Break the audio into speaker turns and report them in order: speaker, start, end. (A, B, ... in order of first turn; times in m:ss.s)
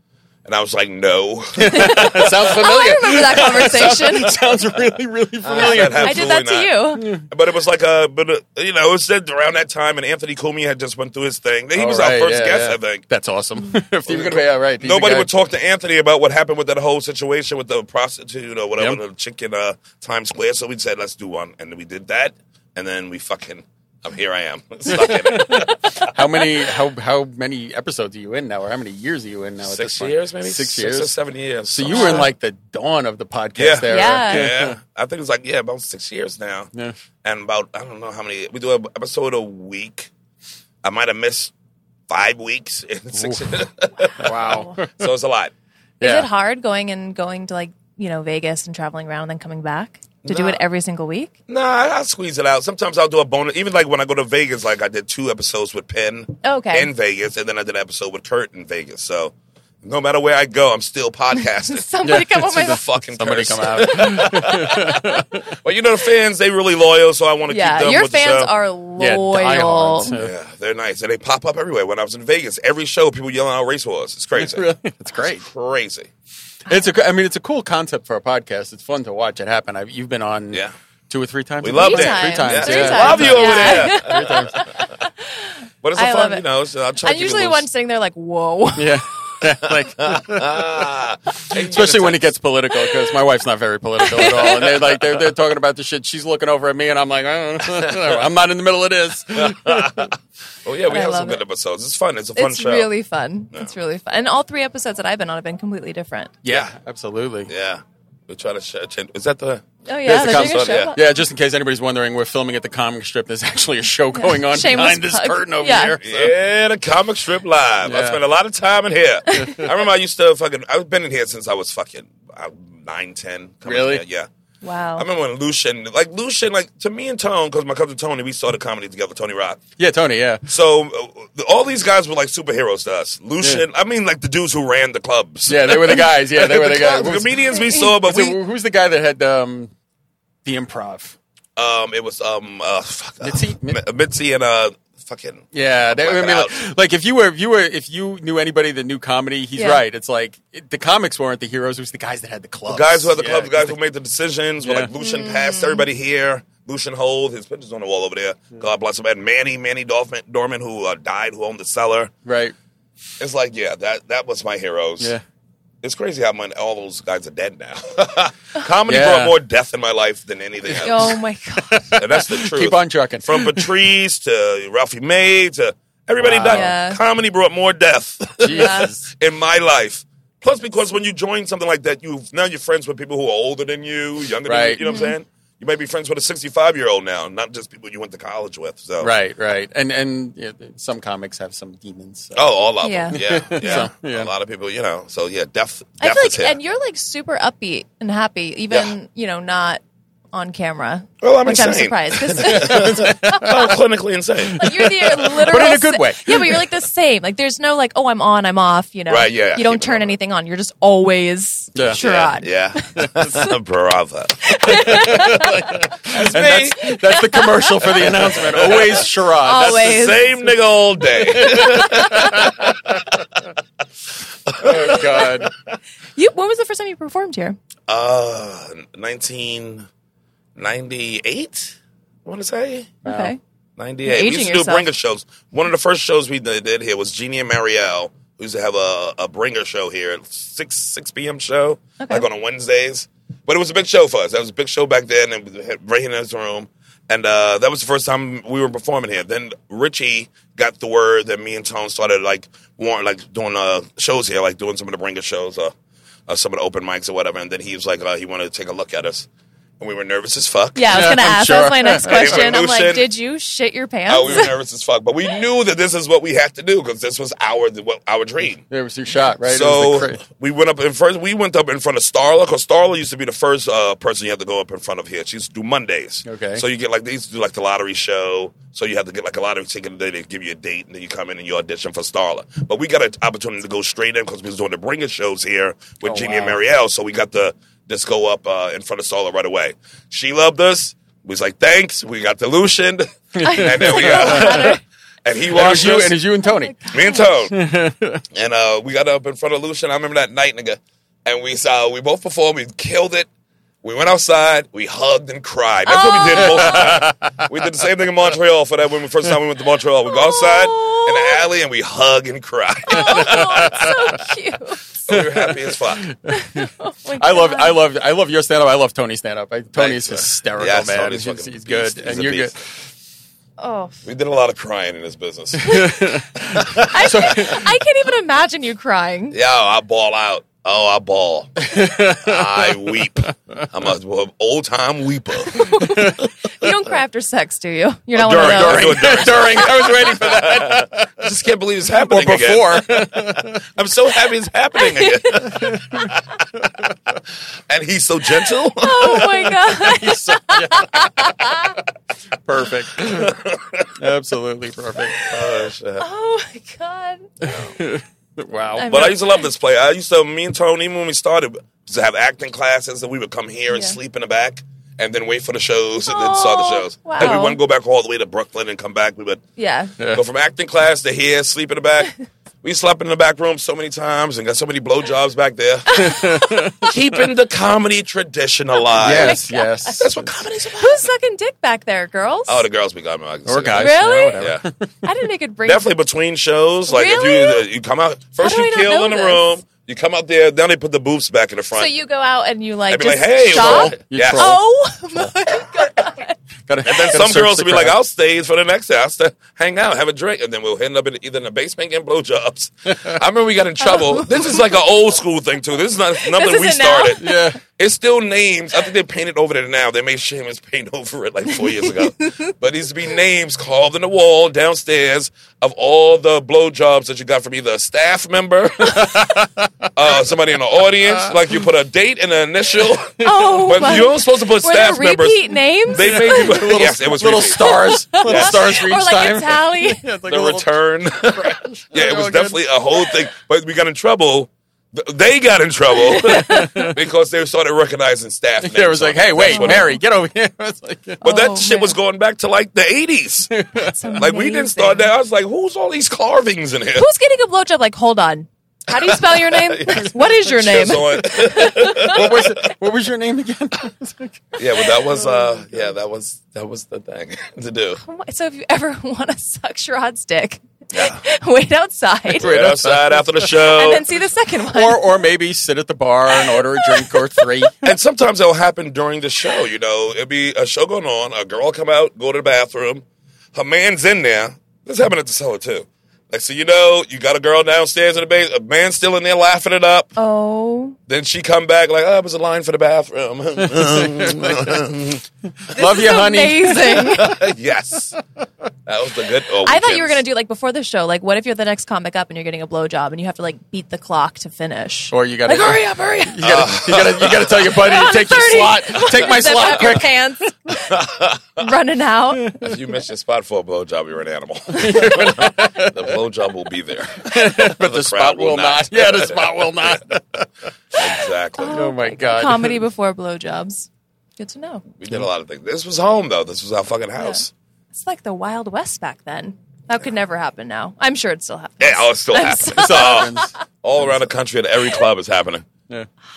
0:00.4-0:02.7 A
0:01.6-0:06.3 B
0:01.7-0:04.4 C
0:03.4-0:04.4 A
0:05.4-0:13.0 A
0:05.6-0:07.1 C
0:07.0-0:07.2 B
0:11.8-0:15.3 B
0:14.1-0:25.8 A
0:24.9-0:31.2 B
0:25.4-0:25.8 C
0:29.6-0:32.3 A
0:31.7-0:34.8 B
0:31.9-0:32.3 C
0:33.6-0:36.7 A
0:33.9-0:34.5 C
0:37.2-0:40.1 A
0:40.8-0:41.5 A
0:42.1-0:45.5 A
0:43.1-0:43.5 B
0:44.2-0:45.0 B
0:44.3-0:44.8 C
0:46.0-0:46.3 B
0:46.0-0:51.3 C
0:50.3-0:50.6 A
0:51.5-1:08.5 A
0:56.4-0:56.9 C
1:01.7-1:02.8 C
1:02.0-1:05.5 B
1:04.1-1:04.5 C
1:07.5-1:10.1 C
1:09.0-1:10.3 B
1:10.1-1:14.7 A
1:14.4-1:15.5 B
1:15.2-1:16.1 A
1:16.7-1:24.6 B
1:21.6-1:24.7 A
1:21.8-1:26.4 C
1:25.8-1:27.7 A
1:27.0-1:29.0 C
1:28.8-1:30.9 B
1:29.7-1:32.3 A
1:31.5-1:40.1 B
1:32.7-1:33.2 C
1:34.0-1:35.2 C
1:37.7-1:38.2 A
1:39.3-1:42.9 A
1:40.9-1:41.4 C
1:42.4-1:46.3 C
1:46.4-1:47.5 B
1:47.5-1:50.9 A
1:49.8-1:51.0 C
1:50.1-1:56.3 B
1:54.1-1:56.0 C
1:56.0-2:04.3 A
1:57.8-1:58.2 B
1:59.3-1:59.6 C
2:03.6-2:04.0 B
2:04.6-2:05.1 C
2:05.0-2:09.6 A
2:09.8-2:10.4 B
2:10.5-2:18.4 A
2:15.5-2:19.7 B
2:17.6-2:17.9 C
2:20.4-2:21.2 B
2:21.6-2:26.6 A
2:23.2-2:23.8 B
2:25.5-2:33.7 B
2:29.6-2:29.8 C
2:32.7-2:42.1 A
2:34.6-2:34.9 B
2:35.0-2:35.8 C
2:42.2-2:42.5 B
2:43.2-2:45.1 A
2:45.8-2:51.2 A
2:48.9-2:49.4 B
2:50.8-2:53.7 B
2:50.8-2:51.9 C
2:51.9-3:09.1 A
2:56.2-2:56.7 B
2:56.5-2:57.0 C
2:58.4-2:59.1 B
2:58.5-2:58.9 C
3:04.5-3:04.9 B
3:04.8-3:05.2 C
3:09.0-3:12.5 B
3:12.4-3:16.6 A
3:12.8-3:13.9 C
3:13.1-3:14.3 B
3:16.0-3:19.8 C
3:20.3-3:23.7 C
3:21.2-3:24.9 A
3:22.4-3:23.7 B
3:24.5-3:26.7 B
3:24.6-3:33.6 C
3:29.1-3:30.2 A
3:31.8-3:32.0 B
3:31.9-3:35.2 A
3:34.4-3:35.9 C
3:34.7-3:40.1 B
3:36.0-3:36.8 A
3:36.7-3:38.4 C
3:38.0-3:43.2 A
3:39.4-3:40.5 C
3:41.3-3:42.5 C
3:41.4-3:42.8 B
3:44.5-3:45.8 A
3:44.6-3:45.5 B
3:46.2-3:47.6 C
3:47.9-3:49.9 A
3:50.6-3:53.0 A
3:53.0-3:53.3 B
3:53.0-3:53.4 C
3:53.8-4:15.7 A
3:54.0-3:54.9 C
4:02.0-4:02.3 C
4:16.3-4:19.3 A
4:19.8-4:21.0 A
4:20.8-4:24.5 C
4:20.9-4:22.4 B
4:22.0-4:23.1 A
4:24.1-4:28.6 A
4:28.7-4:30.2 B
4:29.4-4:56.2 A
4:36.2-4:36.6 B
4:46.0-4:46.6 B
4:53.4-4:54.8 B
4:53.4-4:54.8 C
4:55.5-4:58.2 B
4:56.4-4:57.3 C
4:56.9-4:57.6 A
4:58.3-5:03.3 A
5:03.8-5:14.3 A
5:05.9-5:07.0 C
5:06.6-5:07.3 B
5:10.1-5:11.4 C
5:12.9-5:15.0 C
5:13.3-5:13.7 B
5:15.1-5:16.1 A
5:15.1-5:22.6 B
5:16.3-5:17.8 C
5:19.8-5:22.5 A
5:23.6-5:24.0 C
5:24.0-5:26.0 A
5:25.6-5:27.7 B
5:25.7-5:25.9 C
5:26.6-5:27.6 A
5:26.8-5:29.4 C
5:29.3-5:36.0 A
5:31.6-5:33.3 B
5:35.5-5:39.3 C
5:35.8-5:36.2 B
5:38.2-5:46.2 A
5:38.2-5:41.4 B
5:42.0-5:43.6 B
5:44.8-5:46.1 C
5:45.5-5:46.1 B
5:47.7-5:49.6 A
5:48.8-5:51.8 C
5:49.2-5:51.4 B
5:52.4-5:53.4 B
5:53.0-5:54.0 A
5:54.0-5:55.6 B
5:55.2-5:56.0 A
5:56.0-5:57.4 C
5:57.4-5:59.1 B
5:57.5-5:57.7 A
5:58.8-5:59.5 C
5:58.9-6:09.4 A
6:03.7-6:04.0 C
6:06.1-6:07.6 C
6:09.6-6:09.9 C
6:10.1-6:16.2 A
6:15.9-6:16.9 C
6:16.0-6:17.0 B
6:16.8-6:19.4 A
6:19.0-6:20.3 B
6:19.1-6:20.0 C
6:20.0-6:21.1 A
6:20.8-6:22.6 C
6:22.5-6:24.6 A
6:23.5-6:24.9 B
6:23.8-6:24.4 C
6:25.0-6:25.9 C
6:25.7-6:31.9 A
6:26.9-6:27.7 C
6:28.4-6:29.5 C
6:31.7-6:36.4 C
6:32.9-6:34.6 A
6:33.5-6:34.6 B
6:36.7-6:38.0 B
6:36.8-6:59.4 A
6:43.8-6:44.7 C
6:46.2-6:47.5 C
6:47.2-6:47.6 B
6:51.7-6:52.5 C
6:58.8-6:59.9 B
7:00.0-7:08.7 A
7:01.1-7:01.4 B
7:03.2-7:06.7 C
7:03.2-7:04.1 B
7:06.0-7:12.7 B
7:07.6-7:10.1 C
7:10.2-7:20.0 A
7:15.9-7:17.0 C
7:16.5-7:16.9 B
7:18.6-7:21.2 B
7:19.4-7:20.0 C
7:21.2-7:22.0 C
7:21.2-7:23.5 A
7:23.5-7:24.2 B
7:23.8-7:25.1 C
7:24.2-7:27.1 A
7:27.0-7:32.3 C
7:28.9-7:32.7 A
7:31.9-7:34.6 B
7:34.6-7:38.0 A
7:38.0-7:42.5 C
7:40.9-7:41.2 A
7:42.4-7:43.7 B
7:42.4-7:44.0 A
7:43.4-7:45.0 C
7:44.7-7:48.0 B
7:46.5-7:47.5 C
7:47.8-8:00.2 A
8:00.2-8:01.0 C
8:01.1-8:05.2 A
8:03.6-8:04.9 B
8:05.6-8:07.4 B
8:05.7-8:07.4 C
8:07.1-8:08.2 A
8:08.9-8:10.2 A
8:09.6-8:16.4 C
8:15.1-8:20.1 B
8:16.4-8:17.7 A
8:17.6-8:22.6 C
8:20.9-8:21.7 A
8:22.4-8:22.8 B
8:22.6-8:30.0 A
8:24.7-8:26.2 B
8:24.8-8:25.3 C
8:27.2-8:32.8 B
8:31.0-8:31.8 A
8:31.6-8:34.8 C
8:35.0-8:37.5 A
8:37.2-8:43.5 C
8:41.8-8:45.7 A
8:42.8-8:44.2 B